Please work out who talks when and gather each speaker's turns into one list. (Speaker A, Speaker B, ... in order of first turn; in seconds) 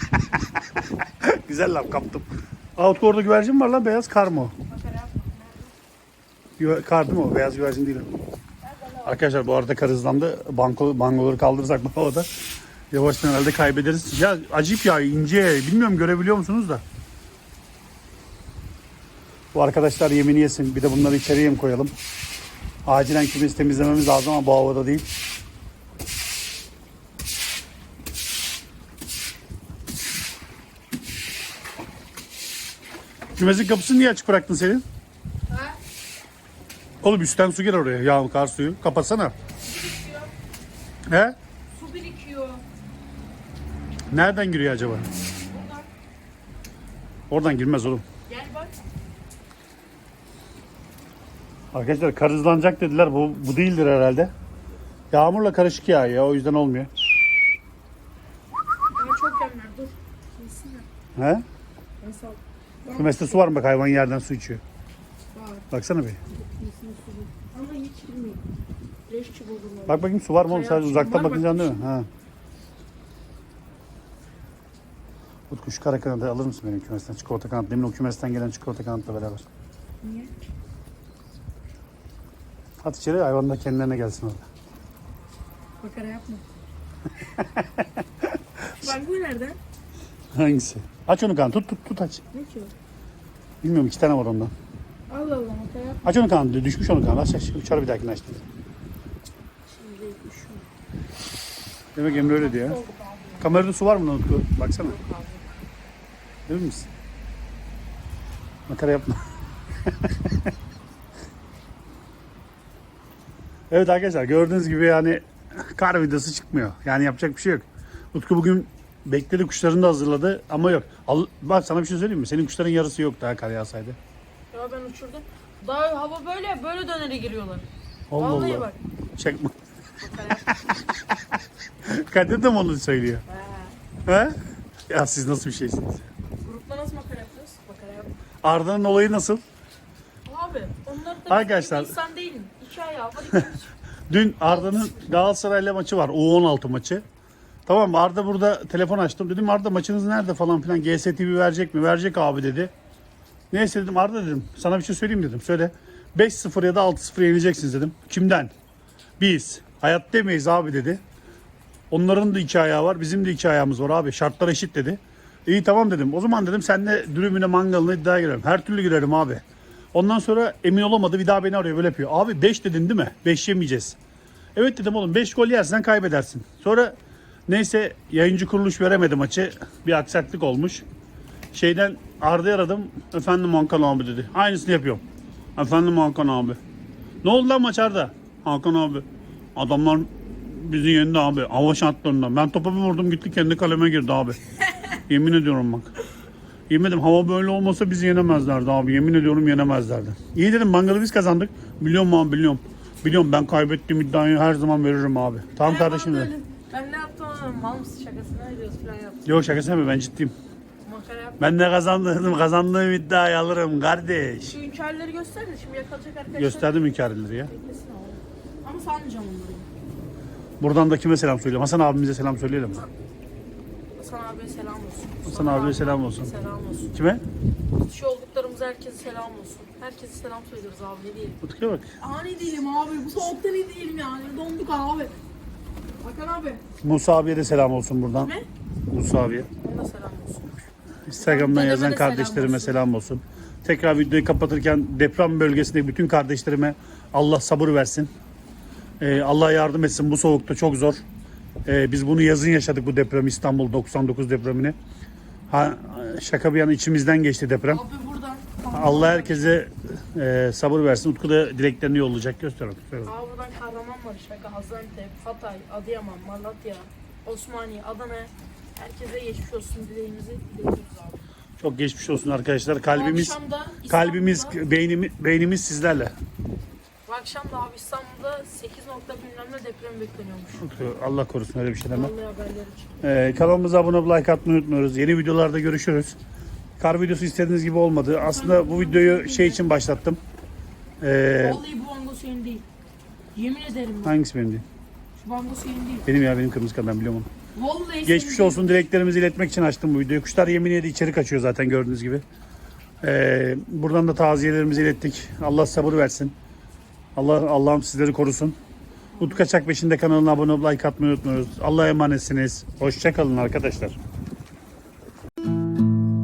Speaker A: 1.2-4.5, 6.6-8.1, 9.1-12.3, 12.9-16.8, 19.5-21.9, 22.9-25.1, 33.4-34.8, 37.0-39.3, 41.1-41.4, 44.1-45.1, 47.3-48.0, 51.7-54.3, 55.1-56.9, 61.2-61.4, 63.0-64.6, 65.7-66.2, 69.9-72.1, 75.5-79.5, 82.8-84.5, 87.4-87.9, 90.3-92.2, 93.6-94.5, 96.0-98.4, 102.0-102.8, 103.4-105.0, 106.5-106.9, 108.7-109.2, 109.9-110.5, 113.7-124.0, 128.1-129.5, 131.8-133.2, 134.1-134.4, 134.9-136.1, 138.4-139.4, 141.3-141.9, 144.1-147.0, 147.7-152.7, 153.5-158.5, 159.2-161.0, 161.9-169.4, 169.9-174.0, 174.6-177.0, 177.5-180.9, 181.5-185.0, 185.6-186.6, 187.2-189.1, 189.6-194.4, 194.9-195.9, 196.7-206.3, 209.3-210.3, 211.4-214.5, 216.4-217.5, 220.6-222.9, 225.2-226.3, 226.9-227.2, 231.4-231.9, 236.8-238.3, 238.9-239.5, 241.1-248.1, 249.0-251.0, 251.7-254.8, 255.5-257.8, 258.7-263.1, 271.6-273.4, 273.9-276.1, 280.6-282.1, 283.0-286.2, 286.8-290.2, 291.0-291.6, 294.0-294.6, 296.1-297.3, 298.0-302.2, 303.0-306.4, 307.2-308.6, 309.2-314.0
Speaker B: 4.7-5.7, 8.7-9.2, 35.5-35.8, 39.6-40.3, 41.7-42.6, 45.5-45.9, 48.3-48.8, 58.9-60.9, 62.0-63.5, 65.3-65.7, 66.3-68.4, 69.1-71.8, 80.0-80.3, 85.8-86.4, 88.7-89.6, 92.3-92.7, 95.1-96.1, 99.7-100.7, 102.2-103.5, 104.7-105.5, 124.5-128.8, 130.0-130.6, 133.3-133.8, 136.4-138.1, 140.3-143.7, 144.4-145.1, 205.6-209.3, 210.8-211.4, 214.4-216.8, 217.4-219.7, 224.0-226.9, 227.7-231.4, 232.0-235.2, 236.0-236.6, 239.6-240.5, 241.1-242.8, 257.7-259.6, 263.1-271.2, 272.9-274.6, 277.1-280.6, 281.9-283.0, 288.2-289.7, 291.4-292.7, 293.3-294.1, 295.2-296.1, 297.5-298.7